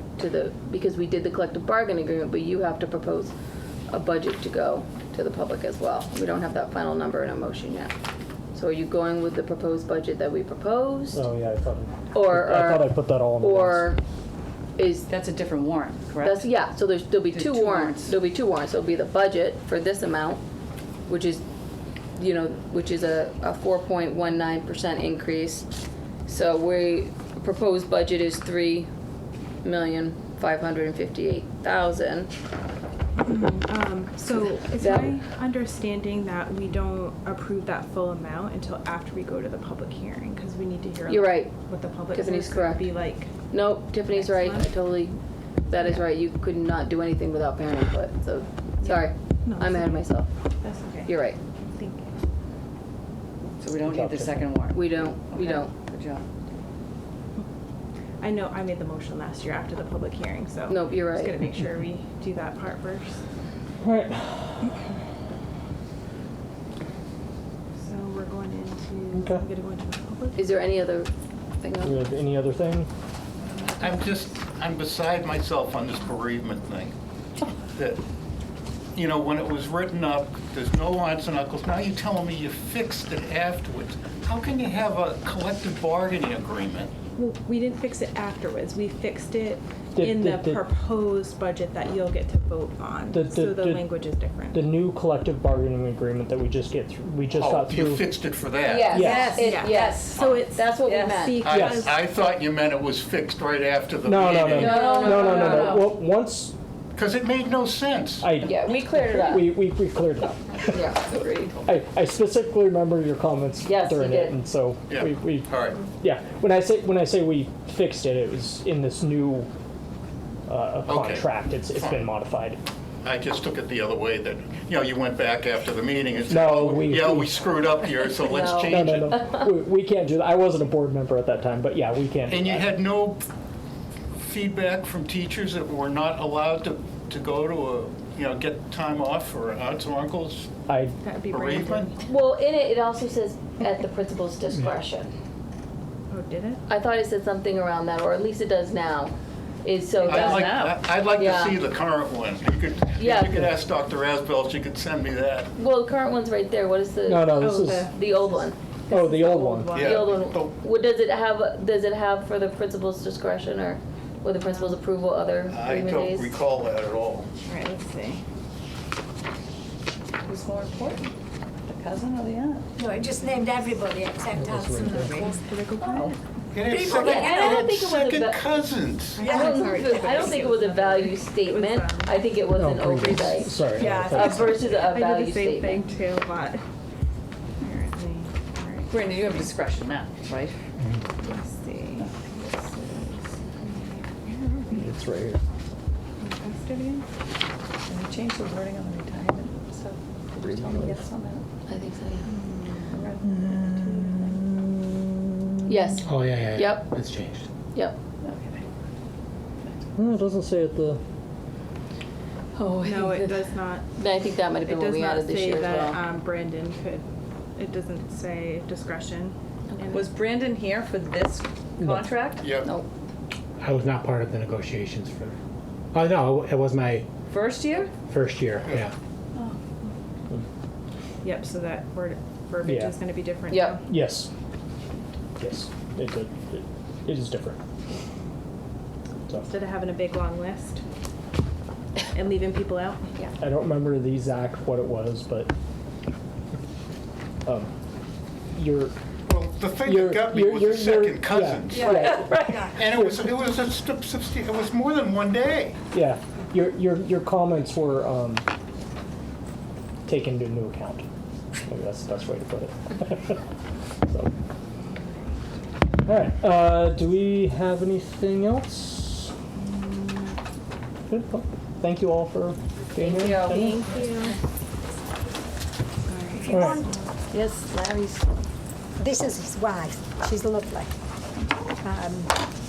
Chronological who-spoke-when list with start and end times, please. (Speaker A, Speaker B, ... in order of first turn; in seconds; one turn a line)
Speaker A: 0.2-3.3
Speaker A: 3.9-7.9
Speaker A: 8.5-11.2
Speaker B: 11.1-13.9
Speaker A: 12.1-14.0
Speaker A: 14.8-15.1
Speaker C: 15.1-16.5
Speaker A: 16.2-20.4
Speaker C: 17.3-18.1
Speaker A: 21.1-21.4
Speaker A: 22.2-25.7
Speaker A: 26.3-28.9
Speaker A: 29.6-32.3
Speaker D: 33.2-43.3
Speaker A: 34.8-35.1
Speaker A: 41.1-41.5
Speaker A: 42.1-42.9
Speaker A: 43.5-50.3
Speaker D: 44.1-44.7
Speaker D: 45.8-46.1
Speaker D: 48.8-50.1
Speaker D: 50.6-52.1
Speaker A: 51.1-51.4
Speaker C: 53.6-56.2
Speaker B: 53.8-54.5
Speaker A: 54.7-55.7
Speaker D: 58.2-63.2
Speaker A: 60.7-61.3
Speaker B: 63.8-64.7
Speaker D: 67.8-70.4
Speaker B: 69.1-69.5
Speaker A: 70.3-72.0
Speaker B: 71.8-72.9
Speaker E: 73.5-76.9
Speaker E: 77.7-78.0
Speaker E: 79.0-86.9
Speaker D: 87.2-94.6
Speaker B: 90.0-90.6
Speaker B: 93.1-93.9
Speaker B: 94.5-98.1
Speaker E: 97.3-99.0
Speaker A: 98.6-101.5
Speaker B: 98.9-99.4
Speaker C: 99.0-100.3
Speaker D: 99.0-102.0
Speaker E: 100.2-100.5
Speaker C: 100.8-101.4
Speaker E: 101.4-105.0
Speaker B: 101.5-101.9
Speaker B: 104.0-106.5
Speaker A: 104.5-106.0
Speaker D: 104.6-105.7
Speaker E: 107.0-108.4
Speaker B: 108.2-110.8
Speaker A: 108.4-109.6
Speaker A: 110.7-111.6
Speaker B: 111.6-119.5
Speaker A: 113.6-114.4
Speaker E: 114.9-115.9
Speaker B: 120.5-122.6
Speaker E: 120.9-122.1
Speaker E: 123.0-129.2
Speaker B: 126.3-127.3
Speaker A: 128.2-129.5
Speaker B: 128.7-132.7
Speaker E: 132.3-133.2
Speaker E: 134.2-140.6
Speaker B: 140.7-140.9
Speaker D: 141.0-142.0
Speaker E: 141.3-141.9
Speaker A: 142.1-145.1
Speaker D: 146.1-146.6
Speaker A: 146.7-151.6
Speaker C: 150.0-150.8
Speaker E: 150.0-155.5
Speaker A: 153.0-153.5
Speaker A: 155.6-158.6
Speaker B: 157.1-157.9
Speaker D: 157.4-158.2
Speaker B: 158.9-159.9
Speaker A: 159.5-166.3
Speaker D: 159.6-159.9
Speaker E: 159.7-160.6
Speaker D: 164.4-164.7
Speaker E: 165.5-167.3
Speaker D: 167.4-168.2
Speaker C: 170.3-172.7
Speaker F: 172.8-175.4
Speaker B: 174.4-175.2
Speaker D: 174.8-176.2
Speaker E: 176.5-179.4
Speaker F: 176.7-177.5
Speaker A: 176.9-178.5
Speaker D: 179.2-182.2
Speaker F: 179.2-180.3
Speaker A: 179.3-183.6
Speaker B: 182.5-184.6
Speaker D: 183.8-186.6
Speaker A: 184.1-185.8
Speaker D: 187.6-189.5
Speaker C: 188.9-190.6
Speaker D: 191.2-194.9
Speaker B: 194.7-195.4
Speaker D: 196.2-197.1
Speaker C: 197.9-201.4
Speaker B: 200.4-201.0
Speaker A: 201.7-202.3
Speaker D: 202.2-203.1
Speaker C: 202.9-203.3
Speaker B: 203.2-205.8
Speaker D: 203.6-204.4
Speaker A: 205.7-207.0
Speaker G: 206.1-207.5
Speaker C: 208.2-208.7
Speaker C: 209.6-210.2
Speaker B: 210.0-211.0
Speaker A: 212.6-213.4
Speaker D: 212.8-213.9
Speaker A: 214.0-216.0
Speaker D: 214.7-217.1
Speaker D: 217.6-220.1
Speaker C: 219.9-222.6
Speaker E: 222.4-222.8
Speaker G: 223.6-225.3
Speaker G: 225.9-227.1
Speaker C: 227.3-227.9
Speaker G: 228.1-228.9
Speaker D: 231.2-233.8
Speaker B: 232.6-233.0
Speaker A: 233.5-233.8
Speaker B: 233.9-234.3
Speaker B: 235.4-237.6
Speaker D: 239.4-240.8
Speaker D: 242.1-243.1
Speaker B: 243.4-245.5
Speaker B: 247.4-247.7
Speaker B: 248.5-248.9
Speaker E: 249.3-252.0
Speaker B: 249.8-253.3
Speaker F: 251.9-252.7
Speaker E: 252.7-255.8
Speaker B: 255.9-258.5
Speaker B: 260.1-261.0
Speaker B: 261.6-263.4
Speaker B: 264.1-264.3
Speaker B: 266.0-269.3
Speaker B: 271.1-273.9
Speaker A: 273.0-273.9
Speaker D: 273.5-274.4
Speaker D: 276.1-277.1
Speaker F: 276.4-276.9
Speaker B: 276.5-276.8
Speaker C: 277.3-278.3
Speaker F: 279.0-280.9
Speaker F: 281.8-282.4